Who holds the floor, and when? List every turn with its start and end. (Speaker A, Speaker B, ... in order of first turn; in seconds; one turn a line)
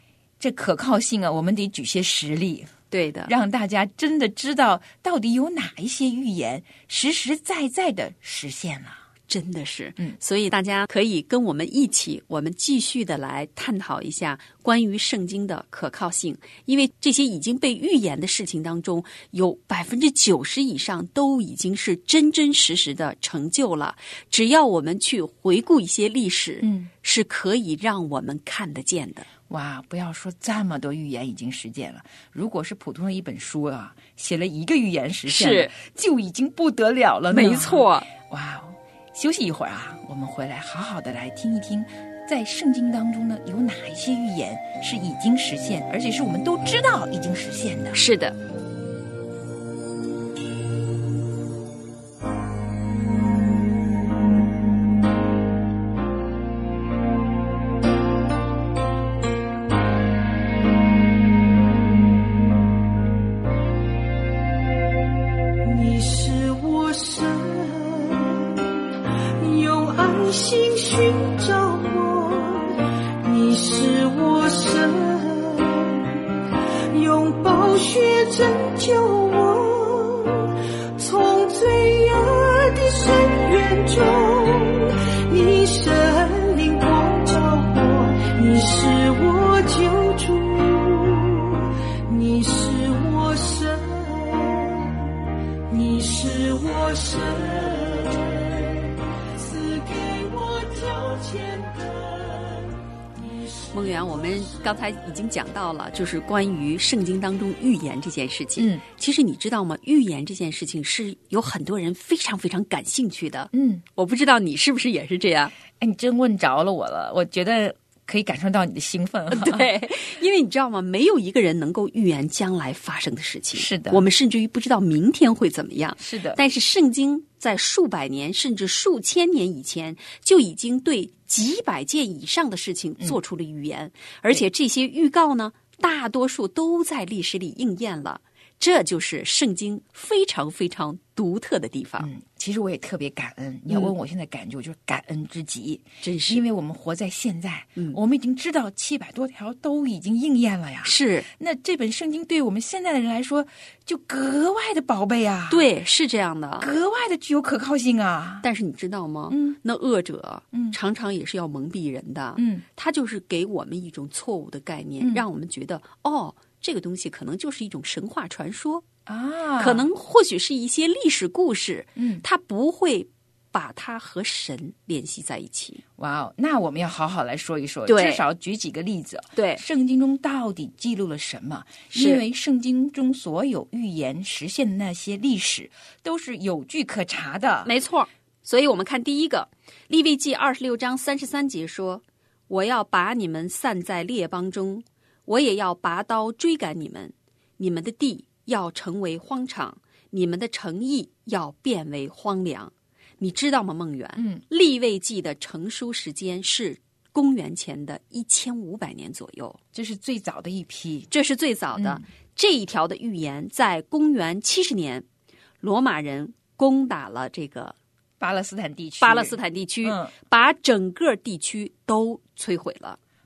Speaker A: 0.4-2.7
Speaker B: 2.9-3.3
Speaker A: 3.2-9.0
Speaker B: 9.3-29.3
Speaker A: 26.6-26.9
Speaker A: 29.5-48.0
Speaker B: 35.3-35.7
Speaker B: 37.3-38.1
Speaker B: 47.9-48.4
Speaker C: 65.6-68.7
Speaker C: 69.4-76.2
Speaker C: 76.9-95.1
Speaker C: 95.7-104.5
Speaker B: 103.7-115.5
Speaker A: 108.6-108.8
Speaker A: 113.5-113.8
Speaker A: 115.8-119.7
Speaker B: 119.3-142.1
Speaker A: 123.5-124.0
Speaker A: 126.0-126.4
Speaker A: 142.0-155.7
Speaker B: 146.0-146.4
Speaker B: 150.8-151.3
Speaker B: 155.5-156.7
Speaker A: 156.6-158.5
Speaker B: 158.4-168.8
Speaker A: 159.3-159.6
Speaker A: 162.4-162.6
Speaker A: 169.1-169.9
Speaker B: 169.6-175.8
Speaker A: 171.9-172.2
Speaker A: 176.0-187.7
Speaker B: 177.9-178.2
Speaker B: 179.4-179.6
Speaker B: 181.9-182.2
Speaker B: 187.6-209.6
Speaker A: 204.2-204.4
Speaker A: 209.7-211.1
Speaker B: 211.1-215.1
Speaker A: 211.7-212.0
Speaker B: 215.6-217.8
Speaker A: 218.2-220.1
Speaker B: 219.0-223.0